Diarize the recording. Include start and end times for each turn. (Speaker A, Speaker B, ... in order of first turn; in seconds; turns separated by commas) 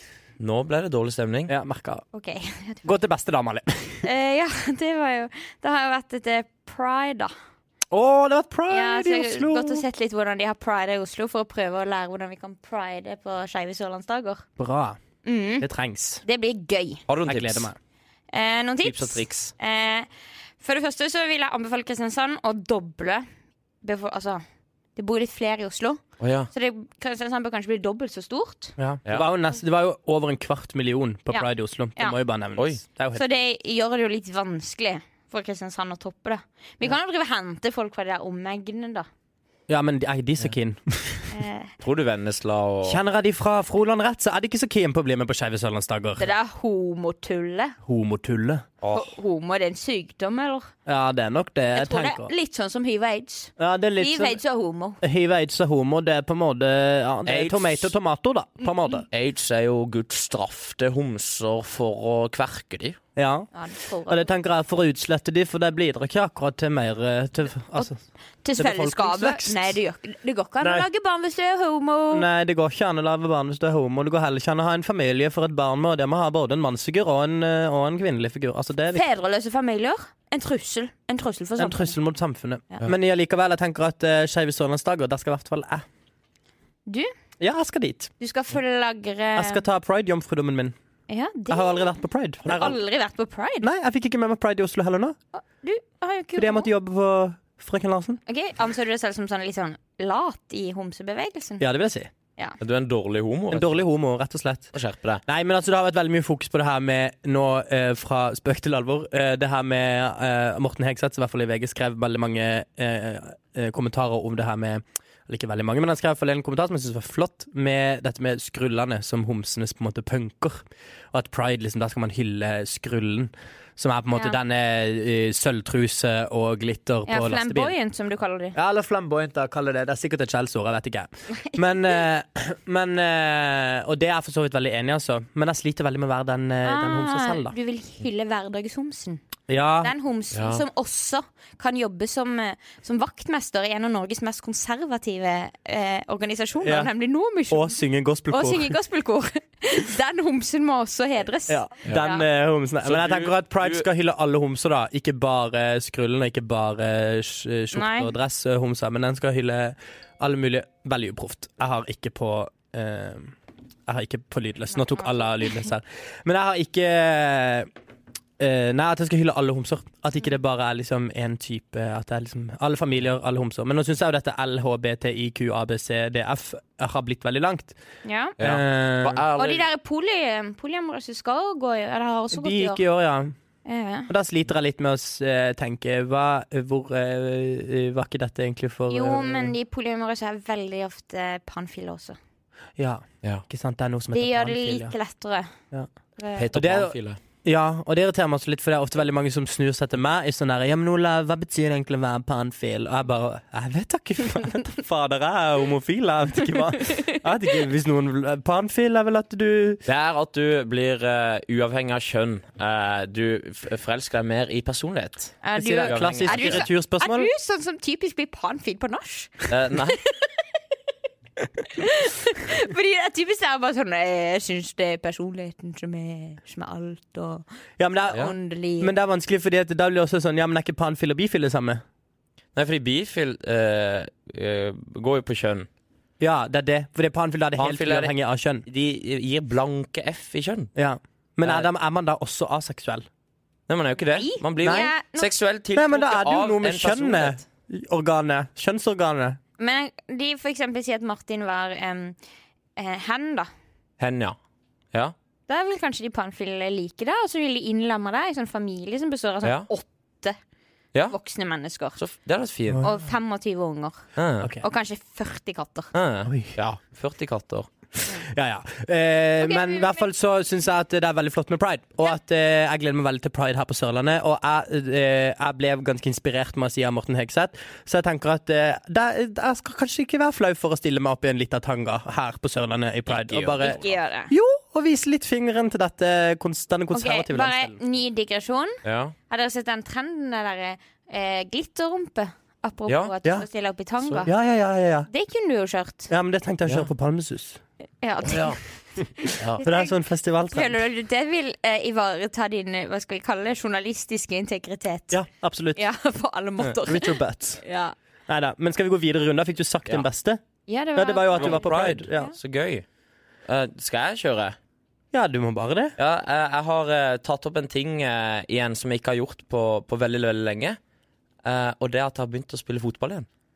Speaker A: 0.4-1.5, Speaker B: 1.5-2.0, Speaker C: 2.1-2.9, Speaker B: 2.8-4.1, Speaker C: 4.0-7.3, Speaker B: 7.9-9.8, Speaker C: 8.7-14.4, Speaker B: 14.6-15.0, Speaker C: 15.2-15.7, Speaker B: 15.6-16.2, Speaker C: 16.2-17.0, Speaker A: 17.1-17.7, Speaker B: 17.2-17.8, Speaker C: 18.3-20.1, Speaker A: 18.8-19.5, Speaker C: 20.6-23.2, Speaker C: 23.8-24.4, Speaker C: 24.9-28.7, Speaker A: 26.2-26.5, Speaker B: 28.8-33.2, Speaker C: 31.3-32.1, Speaker C: 33.1-39.1, Speaker B: 39.7-41.3, Speaker C: 41.3-41.7, Speaker A: 41.8-43.0, Speaker B: 42.8-46.3, Speaker C: 46.2-47.8, Speaker B: 47.8-48.6, Speaker A: 48.8-49.1, Speaker C: 48.9-50.7, Speaker B: 50.9-52.3, Speaker C: 51.7-55.0, Speaker B: 53.6-54.4, Speaker B: 55.0-59.0, Speaker A: 57.2-57.9, Speaker A: 59.1-63.0, Speaker B: 63.1-63.5, Speaker C: 63.5-64.3, Speaker B: 64.1-68.0, Speaker C: 68.4-72.2, Speaker B: 68.6-69.8, Speaker B: 70.6-70.9, Speaker B: 72.1-79.0, Speaker C: 78.9-81.9, Speaker B: 81.6-85.8, Speaker C: 86.8-87.1, Speaker B: 87.4-88.1, Speaker C: 88.2-89.6, Speaker B: 89.3-90.7, Speaker C: 91.1-93.7, Speaker B: 91.5-92.8, Speaker B: 93.6-95.2, Speaker C: 95.3-96.7, Speaker B: 96.4-98.2, Speaker C: 98.3-101.6, Speaker B: 101.6-102.1, Speaker A: 102.6-103.8, Speaker B: 103.5-104.7, Speaker A: 104.7-105.2, Speaker B: 105.2-127.7, Speaker C: 127.1-128.6, Speaker B: 128.5-137.5, Speaker C: 131.6-132.0, Speaker C: 136.6-139.2, Speaker B: 139.5-139.9, Speaker C: 139.8-147.8, Speaker A: 140.3-140.6, Speaker B: 146.6-146.9, Speaker B: 147.5-148.7, Speaker C: 148.3-152.2, Speaker B: 151.5-163.3, Speaker A: 152.8-153.9, Speaker C: 157.7-158.1, Speaker B: 163.9-167.7, Speaker C: 164.7-165.7, Speaker B: 168.4-177.8, Speaker C: 178.0-178.4, Speaker A: 178.4-179.7, Speaker B: 178.4-179.2, Speaker C: 179.3-182.8, Speaker B: 182.3-183.3, Speaker C: 183.6-184.1, Speaker B: 184.1-189.5, Speaker C: 188.9-192.2, Speaker B: 192.8-194.9, Speaker C: 194.1-195.5, Speaker C: 196.2-196.5, Speaker A: 196.3-197.2, Speaker B: 196.5-209.8, Speaker C: 206.8-207.1, Speaker A: 209.8-216.7, Speaker C: 215.4-220.3, Speaker B: 215.6-217.3, Speaker A: 219.5-220.0, Speaker C: 221.6-227.4, Speaker B: 227.8-228.2, Speaker C: 228.1-228.9, Speaker B: 228.8-231.8, Speaker A: 232.5-235.7, Speaker B: 236.2-238.6, Speaker A: 237.6-238.1, Speaker A: 238.7-240.7, Speaker B: 240.8-243.1, Speaker A: 243.7-247.4, Speaker C: 244.1-245.3, Speaker B: 244.6-244.9, Speaker B: 245.7-249.4, Speaker C: 249.6-252.2, Speaker C: 252.8-253.5, Speaker A: 254.0-254.4, Speaker C: 255.5-260.4, Speaker C: 261.1-262.0, Speaker A: 262.0-262.9, Speaker C: 262.8-264.1, Speaker A: 264.1-264.5, Speaker C: 264.6-265.9, Speaker A: 265.9-267.7, Speaker B: 266.2-266.6, Speaker B: 268.0-287.8, Speaker C: 269.4-270.1, Speaker A: 283.1-284.0, Speaker C: 283.6-284.3, Speaker C: 286.9-294.3, Speaker A: 288.8-289.1, Speaker A: 292.9-293.1, Speaker B: 294.2-295.1, Speaker C: 295.1-296.1, Speaker B: 296.1-297.6, Speaker C: 298.0-298.6, Speaker A: 298.2-298.6, Speaker C: 299.2-299.9, Speaker A: 299.4-299.6, Speaker B: 299.6-300.8, Speaker C: 300.5-305.2, Speaker B: 305.1-305.8, Speaker C: 305.8-307.9, Speaker B: 306.8-307.6, Speaker B: 308.3-310.4, Speaker C: 310.7-312.3, Speaker B: 310.9-312.3, Speaker A: 311.3-312.8, Speaker A: 313.5-314.6, Speaker B: 315.1-315.9, Speaker A: 316.0-320.8, Speaker A: 321.4-323.3